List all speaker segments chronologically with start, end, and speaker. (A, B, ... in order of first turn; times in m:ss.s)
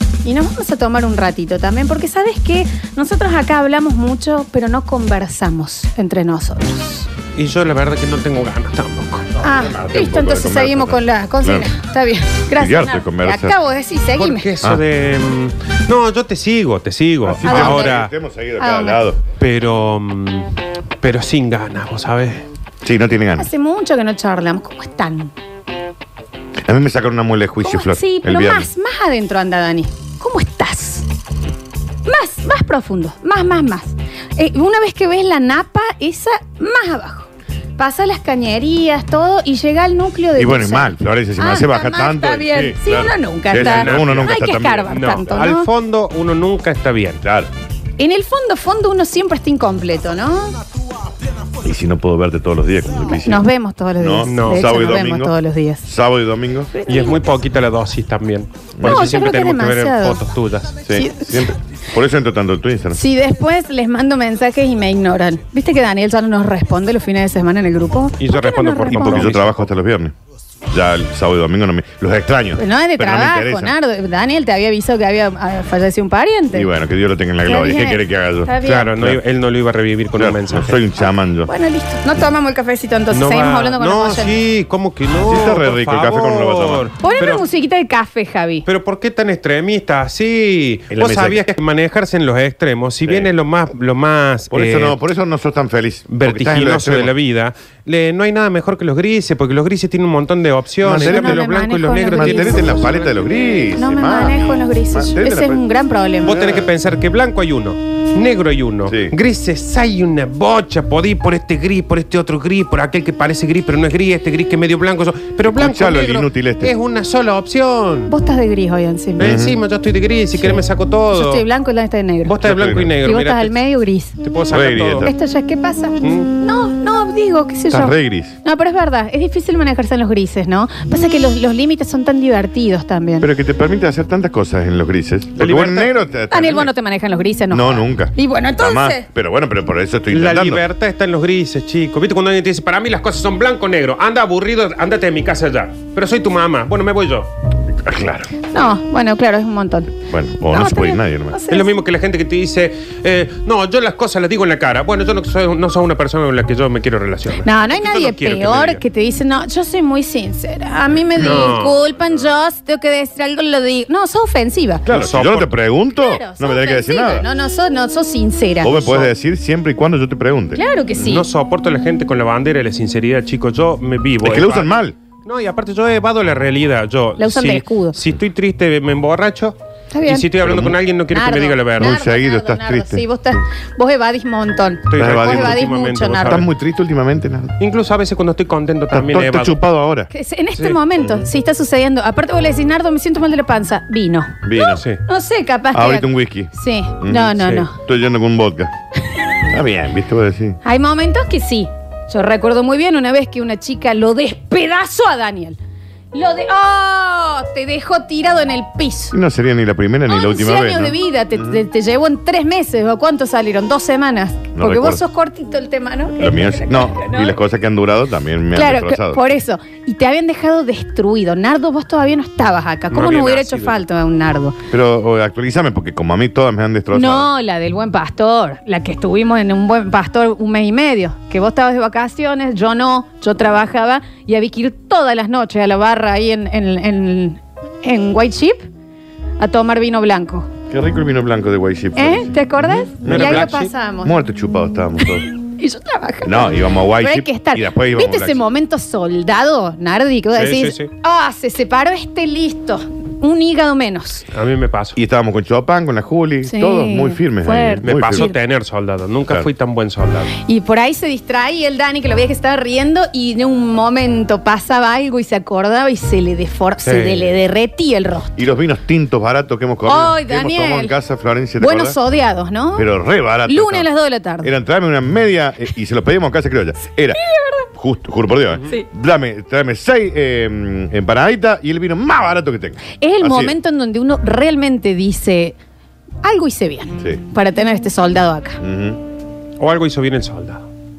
0:00.2-0:07.1 A
0:07.4-0:09.4 B
0:09.4-0:14.5 A
0:09.4-0:11.7 C
0:12.5-0:13.6 C
0:14.2-0:18.1 B
0:17.2-0:19.2 C
0:17.4-0:18.0 A
0:18.6-0:19.1 A
0:19.3-0:22.5 B
0:22.8-0:23.5 C
0:23.4-0:25.3 A
0:26.6-0:28.7 C
0:27.6-0:31.1 A
0:32.0-0:45.7 A
0:40.4-0:45.0 C
0:43.5-0:47.2 B
0:47.2-0:47.5 C
0:48.0-0:50.6 A
0:51.6-0:53.4 C
0:53.1-0:55.9 A
0:54.0-0:56.7 C
0:54.2-0:54.8 B
0:56.7-0:57.3 A
0:56.9-1:00.8 B
0:58.8-0:59.2 C
0:58.8-1:00.2 A
1:00.8-1:03.0 C
1:00.9-1:01.5 A
1:02.9-1:09.3 A
1:08.2-1:09.7 B
1:08.9-1:10.1 C
1:10.7-1:13.7 C
1:12.6-1:16.7 A
1:16.5-1:19.2 C
1:17.4-1:18.9 A
1:18.6-1:20.8 B
1:20.2-1:21.5 C
1:21.4-1:24.4 A
1:23.1-1:27.4 B
1:25.2-1:26.9 C
1:27.0-1:28.7 A
1:28.7-1:35.0 B
1:30.9-1:31.4 C
1:34.5-1:37.1 C
1:36.1-1:43.8 B
1:40.8-1:41.5 C
1:40.9-1:42.8 A
1:42.1-1:45.6 C
1:43.8-1:46.5 A
1:46.2-1:58.1 B
1:46.4-1:46.7 C
1:48.9-1:49.2 C
1:55.4-1:56.7 C
1:58.1-1:59.3 A
1:59.2-2:01.4 B
1:59.2-1:59.6 C
2:01.1-2:02.4 A
2:02.2-2:03.6 B
2:02.4-2:03.0 C
2:03.0-2:04.2 A
2:04.2-2:05.1 B
2:04.5-2:05.1 C
2:05.0-2:13.3 A
2:06.0-2:06.3 B
2:07.7-2:08.3 C
2:13.2-2:16.7 C
2:15.4-2:15.9 B
2:16.3-2:19.1 A
2:17.5-2:20.6 C
2:20.1-2:27.3 B
2:27.8-2:28.4 C
2:28.5-2:31.7 A
2:30.1-2:31.4 C
2:31.5-2:38.8 B
2:37.4-2:44.9 A
2:41.2-2:41.9 B
2:44.8-2:47.2 C
2:44.9-2:45.5 B
2:45.9-2:49.1 A
2:48.6-2:50.6 C
2:50.6-2:51.3 A
2:51.0-2:54.7 B
2:54.2-2:55.0 C
2:55.2-3:02.0 B
2:57.2-2:58.0 A
2:59.9-3:00.3 A
3:00.4-3:00.8 C
3:01.1-3:06.4 A
3:01.8-3:03.0 C
3:04.9-3:06.5 B
3:05.0-3:05.7 C
3:06.2-3:07.6 C
3:07.6-3:09.6 B
3:08.9-3:10.1 C
3:10.1-3:17.8 A
3:11.0-3:11.3 C
3:14.4-3:14.8 C
3:14.7-3:15.0 B
3:15.7-3:18.7 C
3:17.4-3:17.7 B
3:19.5-3:20.6 C
3:20.6-3:25.6 A
3:26.1-3:29.2 A
3:29.1-3:31.6 C
3:30.1-3:37.4 A
3:34.6-3:35.0 C
3:36.2-3:39.4 C
3:38.5-3:44.6 A
3:42.9-3:43.8 B
3:44.7-3:47.3 C
3:46.9-3:58.6 A
3:59.4-4:00.5 A
4:00.7-4:05.3 C
4:02.0-4:04.2 A
4:03.0-4:03.7 B
4:05.0-4:14.3 A
4:06.2-4:08.4 C
4:10.4-4:10.9 B
4:14.3-4:15.0 B
4:15.0-4:18.3 C
4:16.4-4:18.4 A
4:17.8-4:20.4 B
4:20.4-4:28.4 A
4:26.8-4:27.3 B
4:28.4-4:32.0 C
4:29.8-4:31.0 A
4:31.6-4:32.9 A
4:32.8-4:33.9 C
4:33.5-4:34.5 A
4:34.4-4:37.2 C
4:37.2-4:37.7 A
4:37.8-4:43.6 C
4:43.0-4:45.6 A
4:46.2-4:48.6 A
4:48.6-4:49.0 C
4:49.6-4:50.6 B